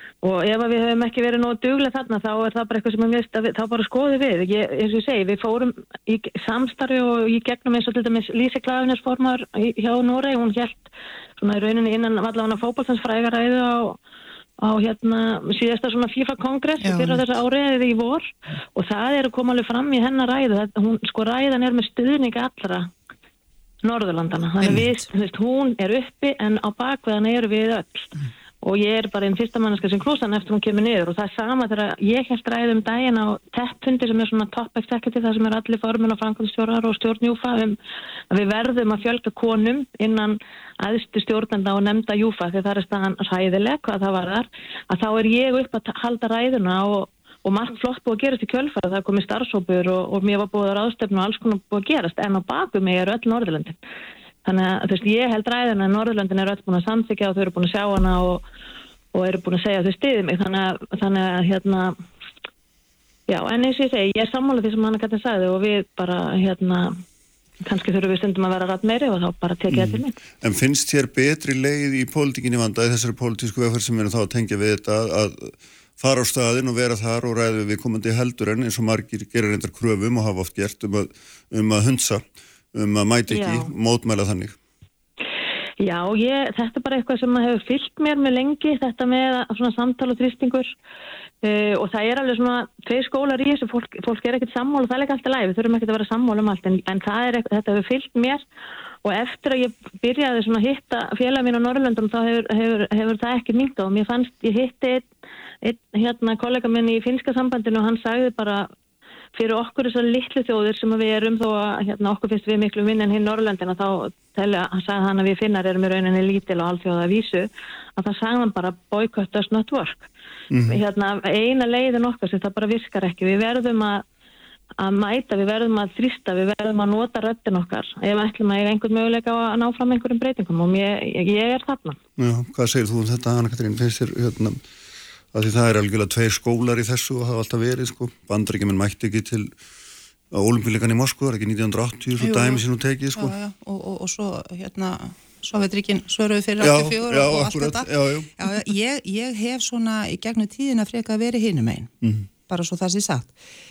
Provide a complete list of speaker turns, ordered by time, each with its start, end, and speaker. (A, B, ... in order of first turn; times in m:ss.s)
0:00.2-0:10.8 A
0:11.4-0:14.0 A
0:14.6-0:22.9 A
0:16.8-0:17.2 B
0:23.8-0:28.1 A
0:24.6-0:25.1 B
0:28.6-0:37.8 A
0:38.3-0:53.8 A
0:54.4-0:58.4 A
0:59.1-1:01.9 A
1:03.3-1:06.9 A
1:07.6-1:10.2 A
1:09.7-1:24.6 C
1:23.3-1:23.7 A
1:25.8-1:30.7 A
1:31.4-1:38.4 A
1:39.0-1:45.1 A
1:45.6-1:48.7 A
1:49.4-2:00.1 A
2:00.5-2:00.8 C
2:00.6-2:04.0 A
2:04.8-2:12.0 A
2:12.2-2:14.6 C
2:15.3-2:19.6 C
2:20.3-2:23.4 C
2:22.2-2:22.6 B
2:23.2-2:31.9 B
2:26.6-2:28.3 C
2:32.0-2:32.3 C
2:32.5-2:33.3 B